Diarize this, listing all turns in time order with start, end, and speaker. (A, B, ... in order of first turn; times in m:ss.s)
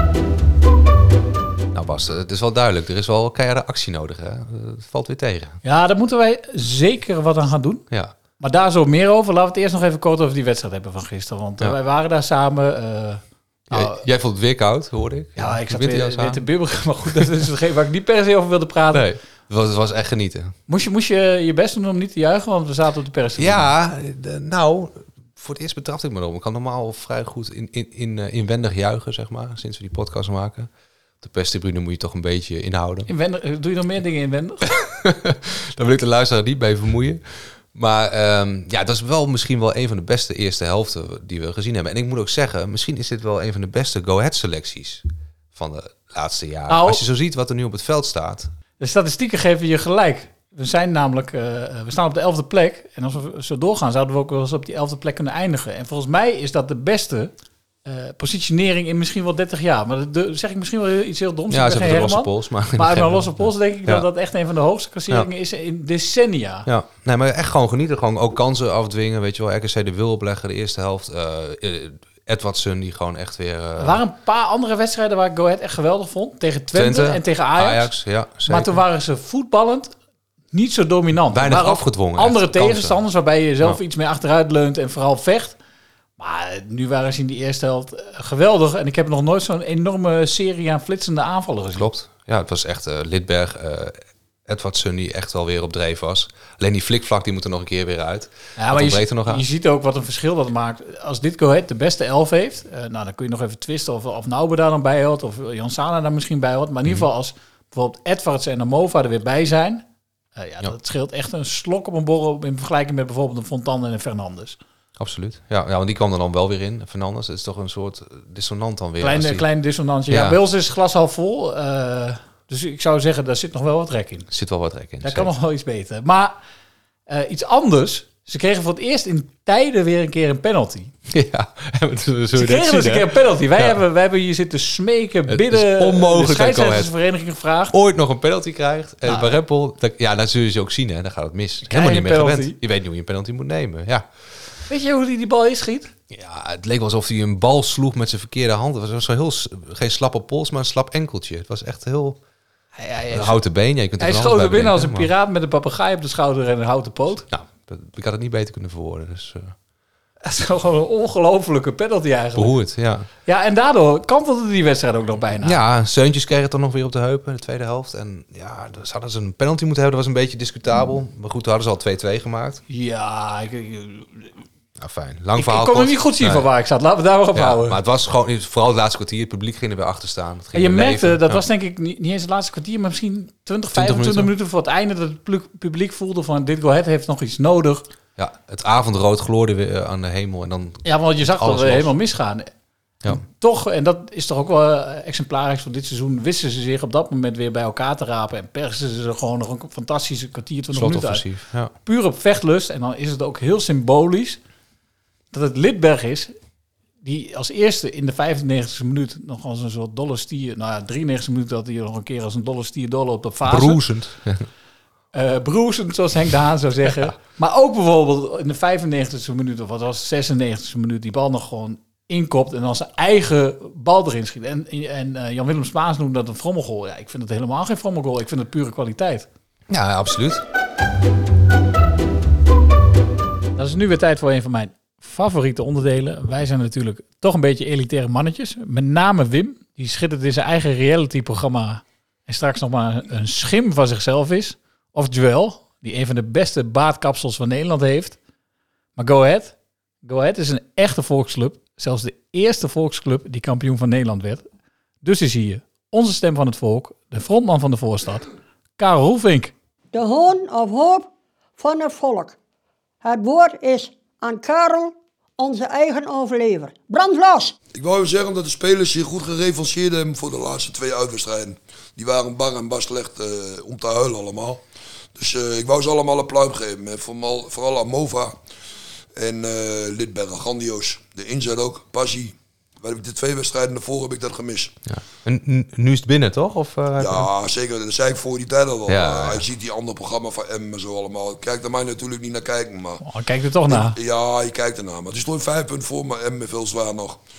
0:01.7-0:05.6 A
0:05.6-0:07.8 B
0:08.4-0:14.0 B
0:13.7-0:16.4 A
0:15.4-0:19.1 B
0:17.1-0:17.4 A
0:18.9-0:20.6 A
0:20.7-0:23.7 B
0:23.4-0:30.7 A
0:31.2-0:33.1 A
0:33.1-0:34.7 B
0:34.8-0:48.5 A
0:46.7-0:47.0 B
0:48.8-0:57.3 B
0:57.8-1:06.7 B
1:01.5-1:04.1 A
1:06.7-1:14.0 A
1:13.8-1:17.9 B
1:16.7-1:18.8 A
1:18.4-1:19.9 B
1:20.5-1:25.6 B
1:21.3-1:23.0 A
1:26.2-1:31.9 B
1:31.8-1:39.4 A
1:38.6-1:49.8 B
1:50.4-1:54.6 B
1:55.0-1:59.5 A
1:59.0-2:04.3 B
2:00.1-2:00.4 A
2:04.3-2:05.3 A
2:05.0-2:06.4 B
2:07.1-2:10.9 B
2:11.1-2:13.8 A
2:12.4-2:17.8 B
2:15.3-2:16.9 A
2:17.7-2:24.1 A
2:19.0-2:19.4 B
2:21.6-2:22.6 B
2:24.7-2:25.9 B
2:26.1-2:32.2 A
2:32.8-2:33.4 B
2:33.1-2:35.1 A
2:34.0-2:37.3 B
2:37.3-2:39.6 A
2:40.2-2:42.6 B
2:42.4-2:43.1 A
2:43.2-2:45.6 B
2:45.4-2:52.6 A
2:52.7-2:54.3 B
2:54.8-2:56.5 A
2:55.4-2:57.8 B
2:57.4-3:01.4 A
3:00.5-3:07.8 B
3:03.7-3:04.3 A
3:08.2-3:11.9 A
3:10.8-3:12.5 B
3:13.0-3:24.4 B
3:20.7-3:21.7 A
3:25.3-3:26.3 B
3:27.0-3:33.8 B
3:33.4-3:34.5 A
3:35.1-3:49.3 B
3:49.7-3:50.4 A
3:53.6-4:08.2 B
4:09.0-4:14.4 B
4:15.0-4:18.3 B
4:18.8-4:19.5 B
4:19.9-4:22.4 C
4:23.0-4:27.5 C
4:27.7-4:34.6 D
4:35.2-4:38.4 D
4:39.2-4:44.8 D
4:44.9-4:47.3 A
4:47.0-4:53.0 D
4:48.9-4:49.4 A
4:53.0-4:54.0 B
4:53.7-4:57.2 D